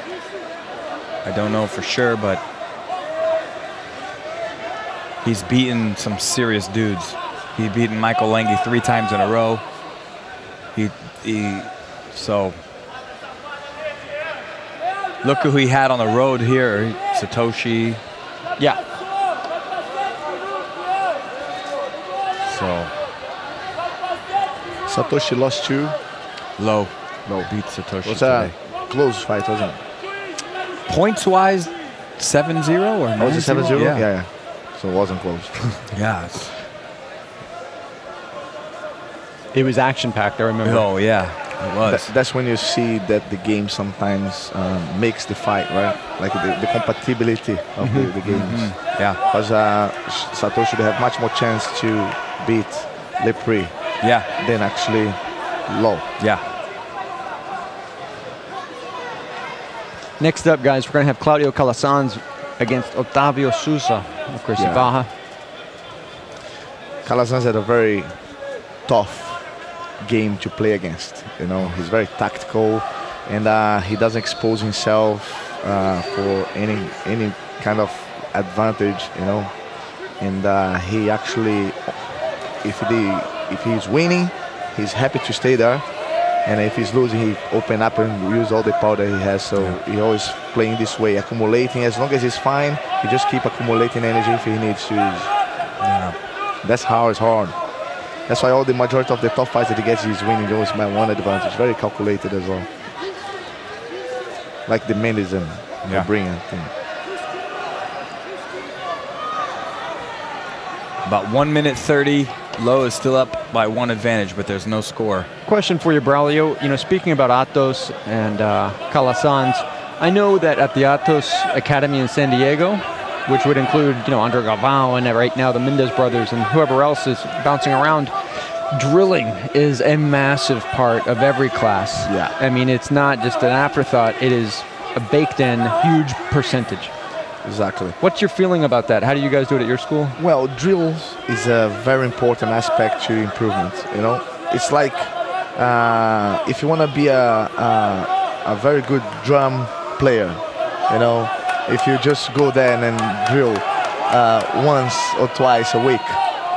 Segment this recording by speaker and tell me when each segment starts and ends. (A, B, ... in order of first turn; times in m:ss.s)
0:01.2-0:02.4 A
0:05.2-0:09.6 A
0:10.8-0:12.6 A
0:15.2-0:18.0 A
0:18.6-0:18.8 B
0:22.4-0:22.9 A
0:24.9-0:26.0 C
0:26.6-0:28.6 A
0:27.3-0:29.8 C
0:30.9-0:34.1 A
0:33.2-0:35.7 C
0:35.9-0:36.6 A
0:39.5-0:40.9 B
0:40.6-0:42.1 A
0:41.8-0:56.1 C
0:47.8-0:48.1 B
0:48.2-0:49.2 A
0:54.0-0:54.3 A
0:56.2-0:56.4 A
1:00.2-1:05.1 B
1:04.6-1:05.0 C
1:07.0-1:08.2 C
1:08.9-1:22.0 C
1:11.6-1:11.8 A
1:22.6-1:35.3 C
1:35.8-1:36.2 A
1:36.6-1:37.6 C
1:38.2-1:42.7 C
1:44.7-1:46.7 C
1:51.0-1:55.3 A
1:55.4-2:16.9 B
2:12.1-2:12.4 C
2:17.4-2:18.0 C
2:18.0-2:20.2 B
2:20.2-2:36.3 C